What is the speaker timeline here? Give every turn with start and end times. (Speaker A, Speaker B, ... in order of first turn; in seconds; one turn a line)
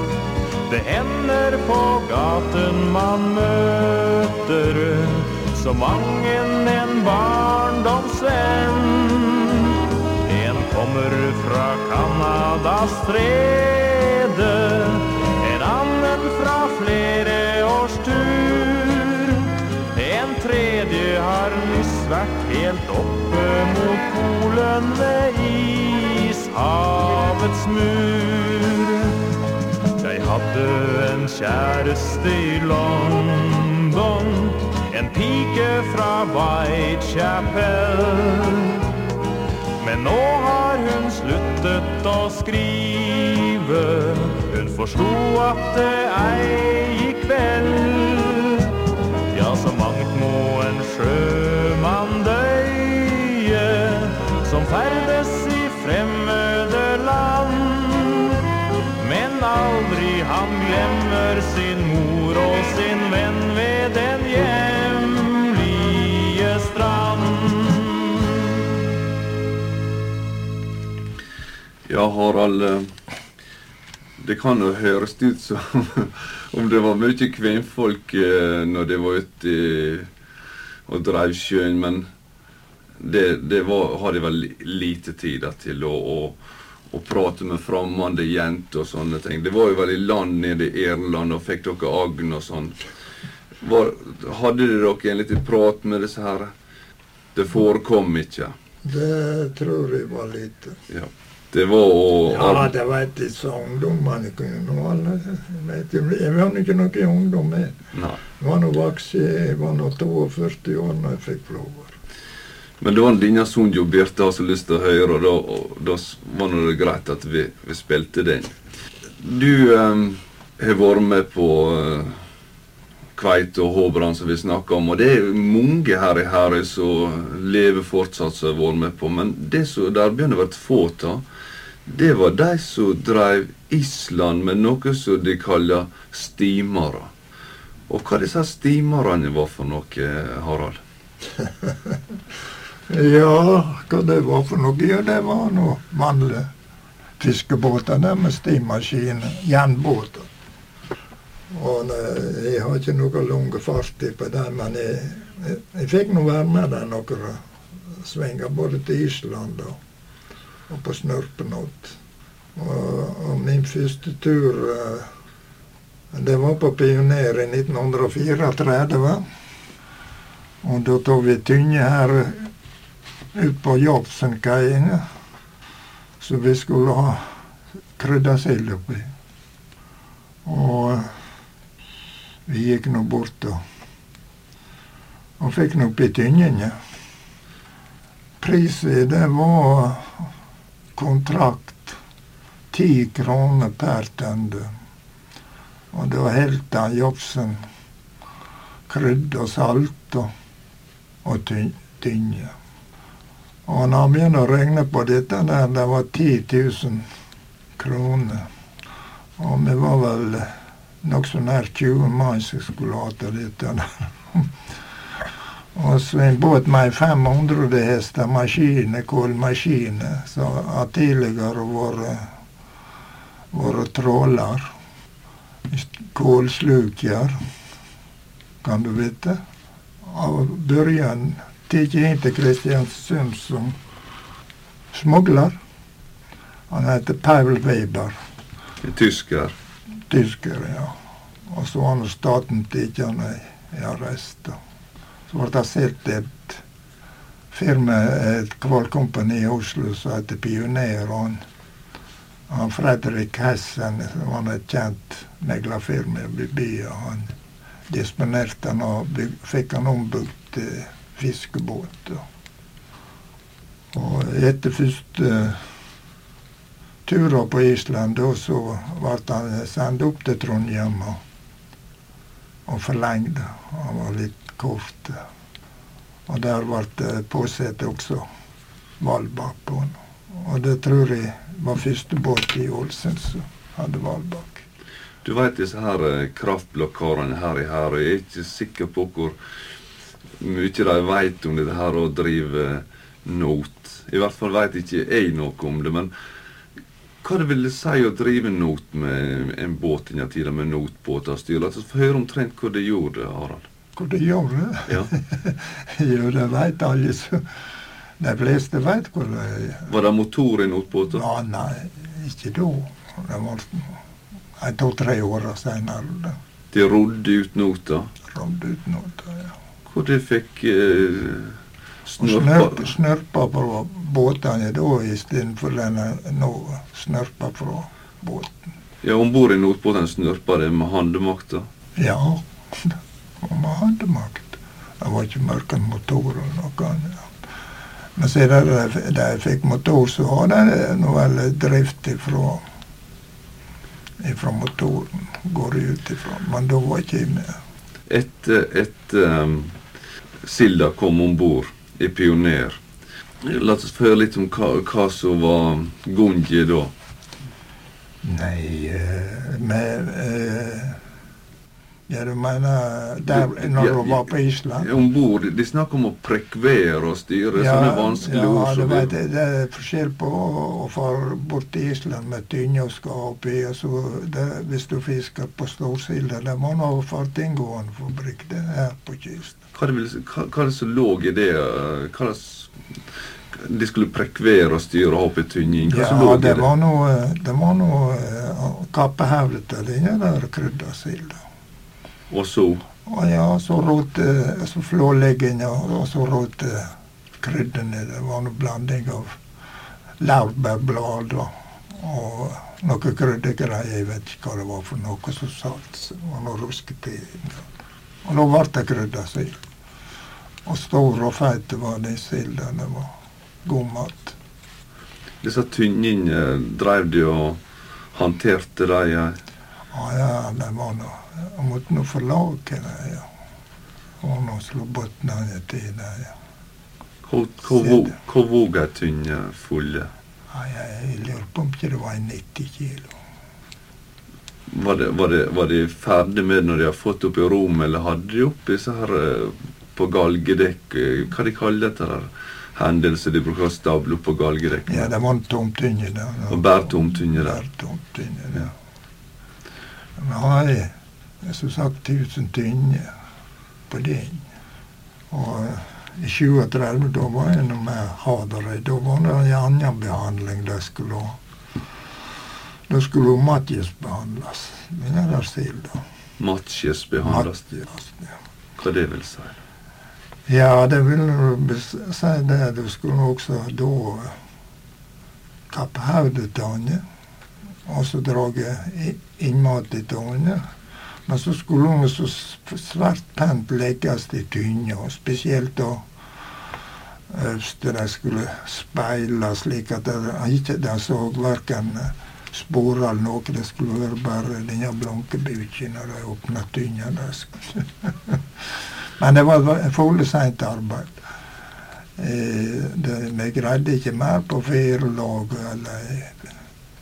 Speaker A: 0.7-29.2
Speaker A: 30.0-38.9
Speaker A: 39.8-48.7
Speaker A: 49.3-58.4
Speaker A: 59.0-68.6
Speaker B: 71.9-72.9
Speaker B: 74.2-80.1
Speaker B: 80.9-82.0
Speaker B: 83.0-92.8
Speaker B: 93.6-96.5
Speaker B: 97.3-98.5
Speaker C: 98.8-100.8
Speaker B: 100.9-102.7
Speaker C: 102.3-107.8
Speaker B: 107.9-108.2
Speaker C: 108.4-112.0
Speaker B: 112.8-118.5
Speaker B: 119.2-122.2
Speaker B: 123.2-131.2
Speaker B: 131.9-137.1
Speaker B: 137.9-140.8
Speaker C: 141.6-141.9
Speaker C: 142.9-146.5
Speaker C: 147.2-150.3
Speaker C: 151.5-157.4
Speaker C: 158.0-159.8
Speaker C: 160.7-162.0
Speaker C: 162.6-165.1
Speaker C: 166.1-169.2
Speaker C: 170.6-172.5
Speaker C: 173.3-175.1
Speaker C: 176.2-177.3
Speaker C: 178.0-179.1
Speaker C: 180.4-181.1
Speaker C: 182.4-183.6
Speaker C: 185.4-186.8
Speaker C: 188.4-190.3
Speaker C: 190.9-192.0
Speaker C: 192.7-194.7
Speaker C: 195.9-197.6
Speaker C: 198.9-200.3
Speaker C: 201.2-202.5
Speaker C: 203.7-207.1
Speaker C: 207.8-208.5
Speaker C: 209.4-210.5
Speaker C: 211.0-214.5
Speaker C: 215.7-222.3
Speaker C: 223.5-224.7
Speaker C: 225.7-227.4
Speaker C: 228.6-229.4
Speaker C: 230.0-233.8
Speaker C: 234.9-235.6
Speaker C: 236.7-238.2
Speaker B: 238.8-239.5
Speaker C: 240.1-240.9
Speaker C: 241.5-244.6
Speaker C: 245.3-246.6
Speaker C: 247.5-251.4
Speaker C: 252.5-257.3
Speaker C: 257.9-262.2
Speaker C: 263.9-265.7
Speaker C: 267.1-271.2
Speaker C: 272.7-275.2
Speaker C: 276.3-278.3
Speaker C: 279.0-284.6
Speaker B: 285.2-289.4
Speaker B: 290.4-296.1
Speaker B: 297.2-303.7
Speaker C: 303.9-307.4
Speaker C: 308.2-309.9
Speaker B: 309.9-311.2
Speaker C: 311.1-314.0
Speaker C: 314.6-316.4
Speaker B: 316.7-318.1
Speaker C: 318.3-319.5
Speaker B: 319.9-322.9
Speaker C: 322.2-328.6
Speaker B: 329.0-331.7
Speaker C: 332.0-337.3
Speaker C: 338.2-342.6
Speaker C: 344.2-347.6
Speaker B: 348.1-349.8
Speaker B: 350.4-352.8
Speaker B: 353.4-356.9
Speaker C: 358.2-361.0
Speaker C: 362.1-364.9
Speaker B: 363.3-369.1
Speaker C: 367.6-379.6
Speaker B: 379.7-382.7
Speaker B: 383.5-386.7
Speaker C: 385.9-391.4
Speaker B: 392.3-392.8
Speaker C: 393.1-399.4
Speaker C: 400.2-407.6
Speaker C: 408.2-409.6
Speaker C: 410.6-414.4
Speaker B: 415.4-417.6
Speaker B: 418.1-419.4
Speaker C: 419.9-423.3
Speaker C: 424.2-426.4
Speaker B: 427.2-430.1
Speaker C: 427.8-428.1
Speaker C: 430.5-433.1
Speaker B: 434.7-445.1
Speaker C: 444.9-448.7
Speaker B: 446.5-447.6
Speaker C: 450.2-453.1
Speaker C: 453.9-454.4
Speaker C: 455.3-461.4
Speaker C: 462.9-466.0
Speaker B: 466.4-467.6
Speaker C: 467.2-468.3
Speaker B: 468.8-469.6
Speaker C: 470.5-474.4
Speaker C: 475.7-477.0
Speaker C: 477.9-480.6
Speaker C: 481.3-486.1
Speaker C: 487.3-498.4
Speaker C: 499.2-501.2
Speaker C: 502.2-506.4